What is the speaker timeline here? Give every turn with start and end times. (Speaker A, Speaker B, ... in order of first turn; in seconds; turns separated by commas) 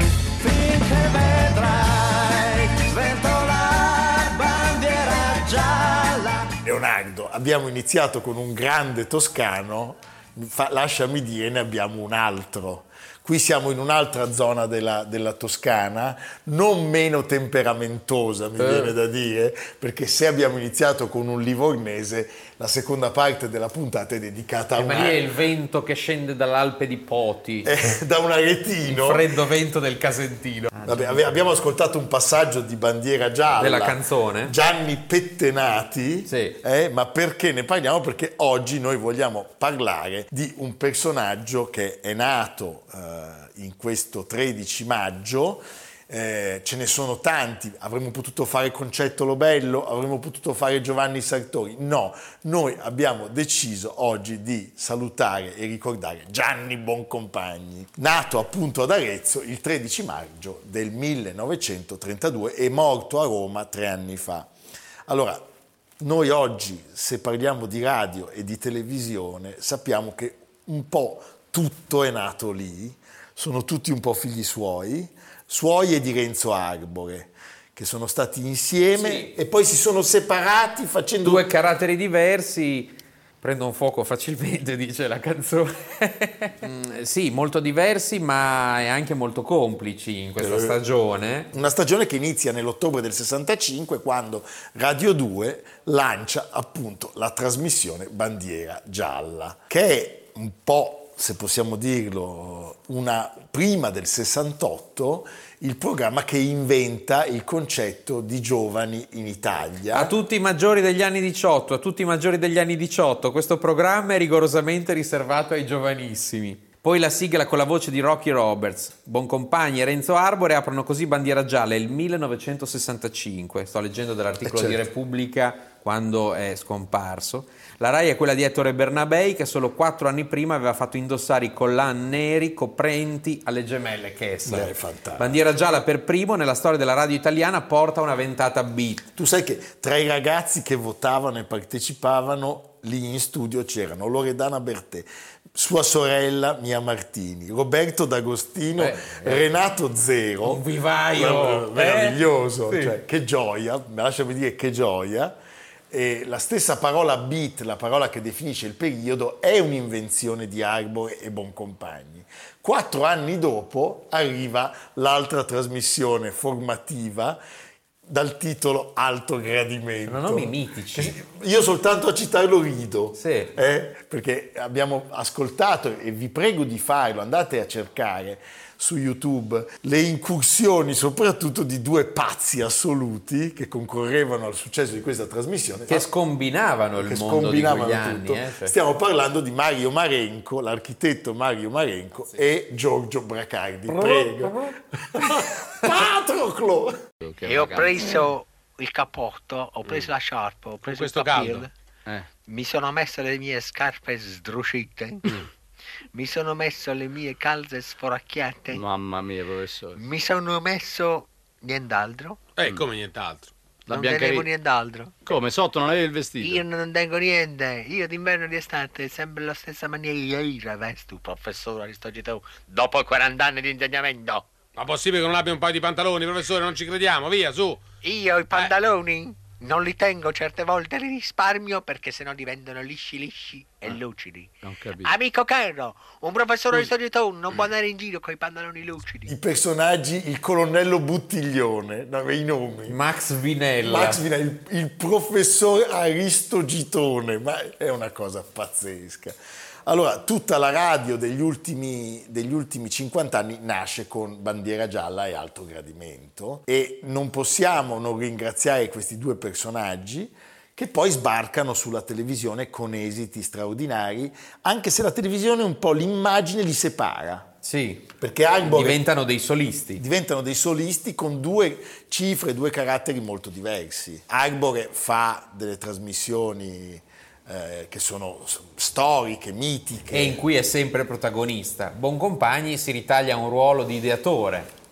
Speaker A: 0.4-6.5, Speaker B: 6.6-25.2, Speaker C: 18.6-18.9, Speaker C: 24.8-27.7, Speaker B: 27.6-29.3, Speaker C: 28.9-31.2, Speaker B: 30.8-64.5, Speaker C: 33.6-34.5, Speaker C: 36.3-36.6, Speaker B: 65.1-65.4, Speaker B: 66.0-81.5, Speaker C: 78.9-79.3, Speaker C: 81.2-91.5, Speaker B: 90.4-90.8, Speaker B: 91.5-110.1, Speaker C: 109.9-139.1, Speaker B: 124.5-124.8, Speaker B: 134.4-135.3, Speaker B: 139.2-155.3, Speaker C: 148.8-149.4, Speaker C: 150.4-152.9, Speaker B: 155.9-167.4, Speaker B: 168.1-186.1, Speaker C: 170.1-171.2, Speaker C: 173.2-173.5, Speaker C: 185.9-188.8, Speaker B: 187.0-197.0, Speaker C: 193.9-194.4, Speaker D: 197.4-201.7, Speaker E: 197.4-197.8, Speaker F: 200.8-201.7, Speaker D: 202.4-205.4, Speaker D: 206.1-208.8, Speaker E: 208.7-210.1, Speaker D: 210.0-212.5, Speaker F: 212.6-213.5, Speaker E: 213.9-214.5, Speaker D: 213.9-215.2, Speaker E: 215.2-216.6, Speaker D: 216.4-224.5, Speaker F: 224.7-227.8, Speaker D: 228.0-239.3, Speaker E: 234.6-235.2, Speaker B: 239.3-243.0, Speaker C: 242.9-244.2, Speaker B: 243.8-249.3, Speaker B: 249.9-267.5, Speaker C: 267.6-270.0, Speaker B: 268.2-269.0, Speaker B: 270.0-280.4, Speaker C: 280.1-284.7